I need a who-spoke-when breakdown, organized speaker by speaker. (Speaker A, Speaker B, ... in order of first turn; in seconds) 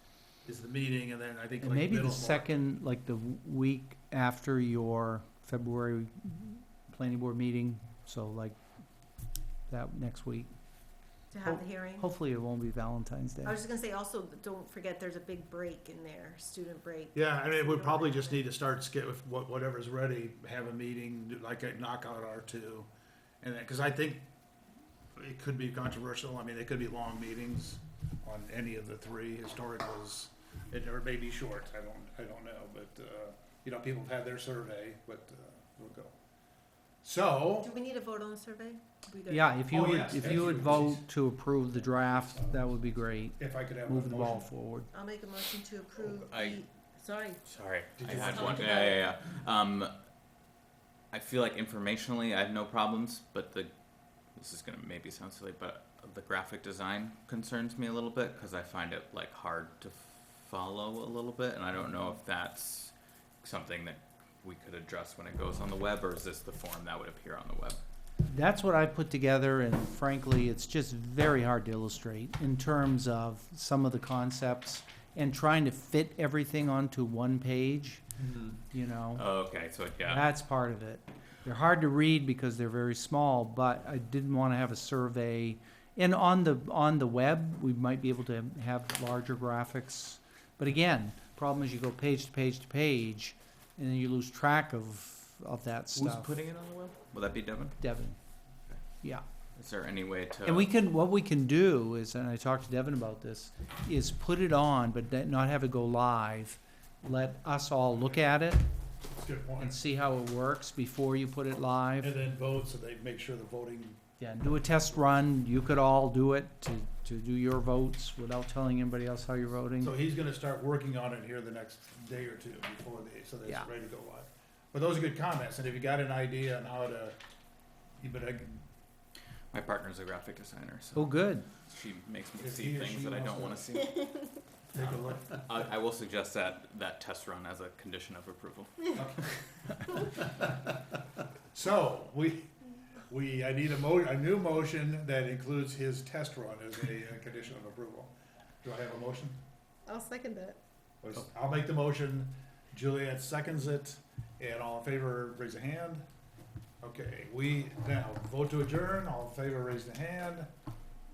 Speaker A: 0.4-2.5, 17.1-22.9, 23.4-24.2, 25.1-36.1, 37.0-37.8, 39.7-41.1, 41.7-44.5, 48.0-48.8, 109.2-109.8, 112.0-115.1, 119.8-127.2, 128.0-128.6, 132.4-133.8, 134.7-135.5, 138.9-139.2, 141.5-142.5, 143.1-149.4, 151.0-156.1, 156.8-160.5
Speaker B: 1.6-8.6, 9.7-10.5, 11.4-13.6, 39.3-44.9, 68.2-78.0, 78.7-79.3, 80.0-96.3, 97.8-98.2, 100.4-108.7, 109.6-112.1, 114.2-119.9, 130.9-131.5
Speaker C: 11.3-12.0, 13.4-18.4, 37.6-40.3, 44.9-47.4, 48.1-49.1, 149.9-150.6
Speaker D: 46.0-46.6, 47.4-49.9, 51.1-53.7, 54.3-67.8, 78.2-78.5, 79.1-80.2, 95.9-97.8, 99.5-100.7, 129.5-134.2, 134.8-138.9